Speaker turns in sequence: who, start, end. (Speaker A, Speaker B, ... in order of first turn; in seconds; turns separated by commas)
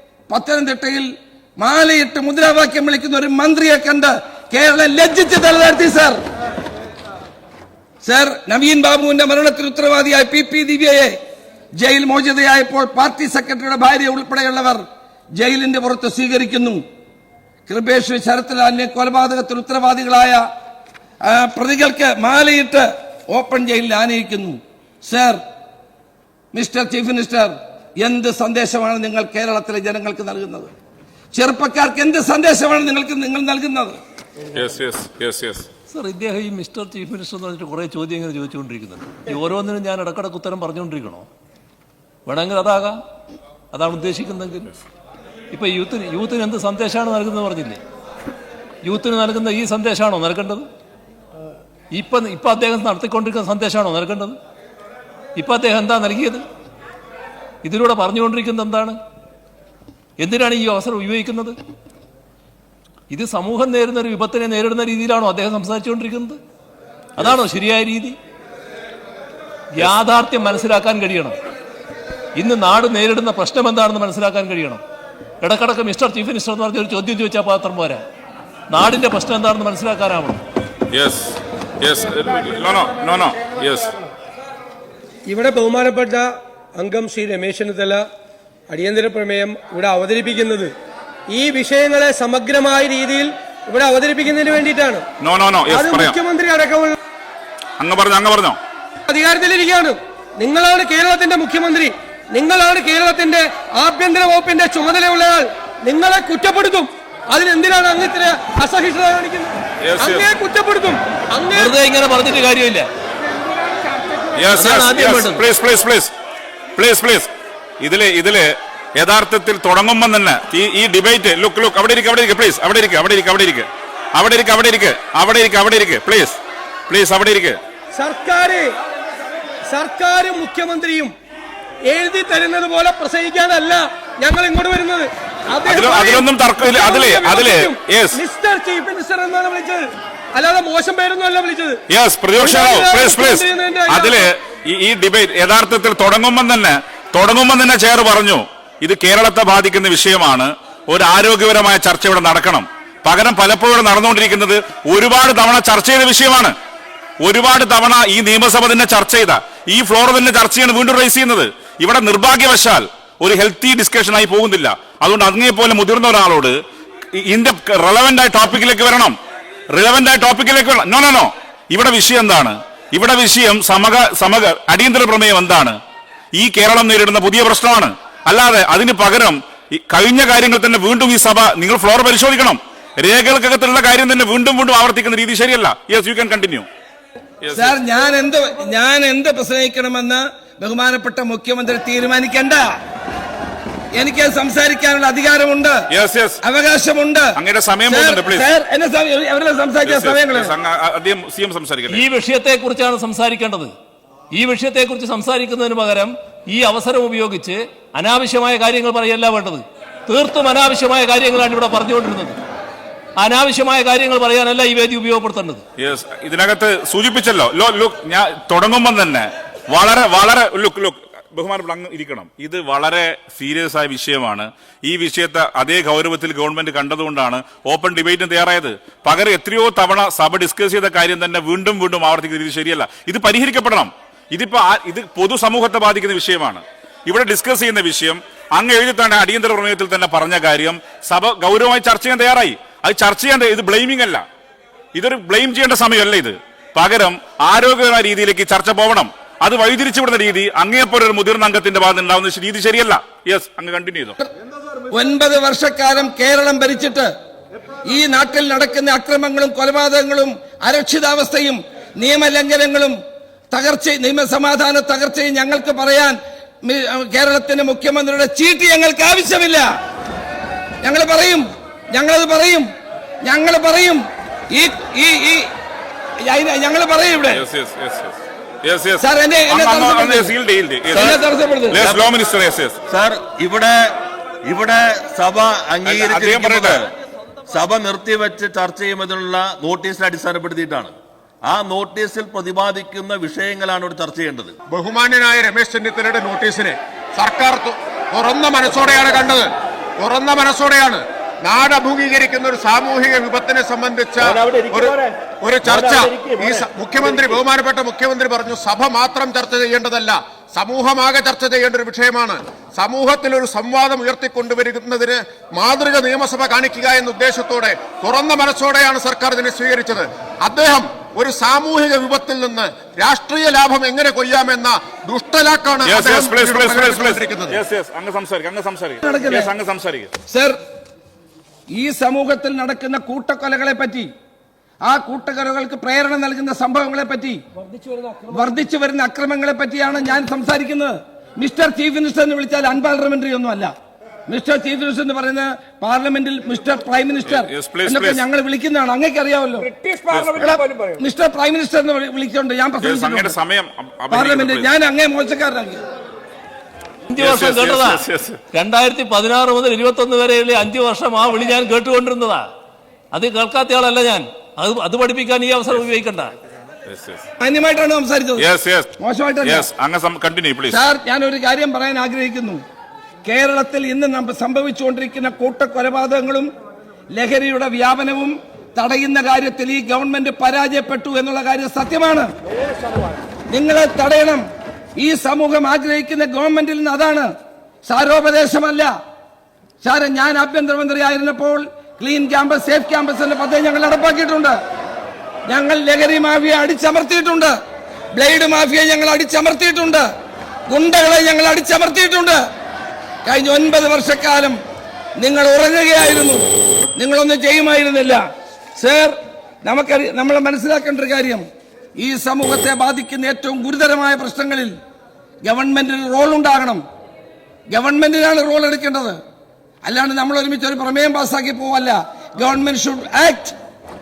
Speaker A: 0.3-6.2, Speaker A: 8.0-11.1, Speaker A: 11.8-14.8, Speaker A: 15.4-16.8, Speaker A: 17.7-20.4, Speaker A: 21.2-25.4, Speaker A: 26.5-30.7, Speaker A: 31.3-34.0, Speaker B: 34.5-35.7, Speaker C: 35.9-41.3, Speaker C: 42.3-43.0, Speaker C: 43.7-44.7, Speaker C: 45.5-47.8, Speaker C: 48.8-50.7, Speaker C: 51.9-54.4, Speaker C: 55.4-56.4, Speaker C: 57.6-59.0, Speaker C: 60.2-61.6, Speaker C: 63.1-66.4, Speaker C: 67.2-68.2, Speaker C: 69.7-71.4, Speaker C: 72.4-74.8, Speaker C: 75.4-78.0, Speaker C: 78.7-80.4, Speaker B: 80.9-83.9, Speaker D: 85.3-88.0, Speaker D: 88.7-90.7, Speaker D: 91.3-95.1, Speaker B: 95.2-96.2, Speaker D: 95.7-97.0, Speaker B: 97.8-98.6, Speaker D: 99.1-111.7, Speaker B: 109.8-110.3, Speaker C: 111.5-112.9, Speaker B: 114.3-116.1, Speaker C: 114.5-115.5, Speaker B: 116.8-127.6, Speaker D: 127.9-128.7, Speaker D: 129.7-131.2, Speaker D: 131.9-141.8, Speaker B: 135.6-138.2, Speaker B: 141.9-156.6, Speaker D: 142.4-144.3, Speaker B: 157.2-166.6, Speaker B: 167.1-169.2, Speaker B: 169.7-175.8, Speaker B: 176.3-186.7, Speaker B: 187.4-187.8, Speaker A: 187.6-192.7, Speaker A: 193.9-195.8, Speaker B: 195.9-196.4, Speaker A: 196.4-197.3, Speaker B: 197.4-198.5, Speaker A: 197.9-200.5, Speaker B: 199.8-202.0, Speaker C: 201.9-203.7, Speaker C: 204.3-212.4, Speaker C: 213.2-215.6, Speaker B: 215.8-244.2, Speaker B: 244.9-254.2, Speaker A: 254.9-257.1, Speaker A: 257.9-263.0, Speaker A: 263.5-269.7, Speaker A: 270.8-272.7, Speaker A: 273.2-275.5, Speaker A: 276.2-277.4, Speaker B: 277.3-281.2, Speaker A: 279.0-280.4, Speaker A: 280.9-281.8, Speaker B: 281.7-282.8, Speaker E: 281.8-282.1, Speaker E: 282.9-286.8, Speaker B: 285.9-286.8, Speaker E: 287.5-294.6, Speaker F: 294.7-327.6, Speaker B: 325.9-330.1, Speaker A: 329.1-329.5, Speaker A: 330.3-330.6, Speaker A: 331.7-334.1, Speaker A: 334.8-337.4, Speaker D: 337.9-338.2, Speaker A: 338.3-343.7, Speaker A: 344.3-349.7, Speaker B: 347.3-348.2, Speaker B: 350.1-350.6, Speaker A: 351.0-353.4, Speaker B: 352.8-354.7, Speaker A: 354.1-355.8, Speaker C: 357.1-362.4, Speaker B: 357.2-358.4, Speaker C: 363.1-366.3, Speaker B: 366.9-367.2, Speaker A: 367.4-368.5, Speaker B: 368.4-370.8, Speaker A: 369.0-369.7, Speaker A: 370.7-372.6, Speaker A: 373.2-376.5, Speaker A: 377.1-382.3, Speaker A: 383.5-384.4, Speaker A: 385.0-387.3, Speaker A: 387.9-388.9, Speaker A: 389.8-394.6, Speaker A: 395.5-397.6, Speaker A: 398.1-400.1, Speaker A: 400.7-402.4, Speaker A: 403.2-404.6, Speaker A: 405.2-406.4, Speaker A: 407.0-408.2, Speaker A: 408.8-411.4, Speaker A: 412.0-414.7, Speaker A: 415.4-416.8, Speaker A: 417.7-419.2, Speaker A: 419.8-423.6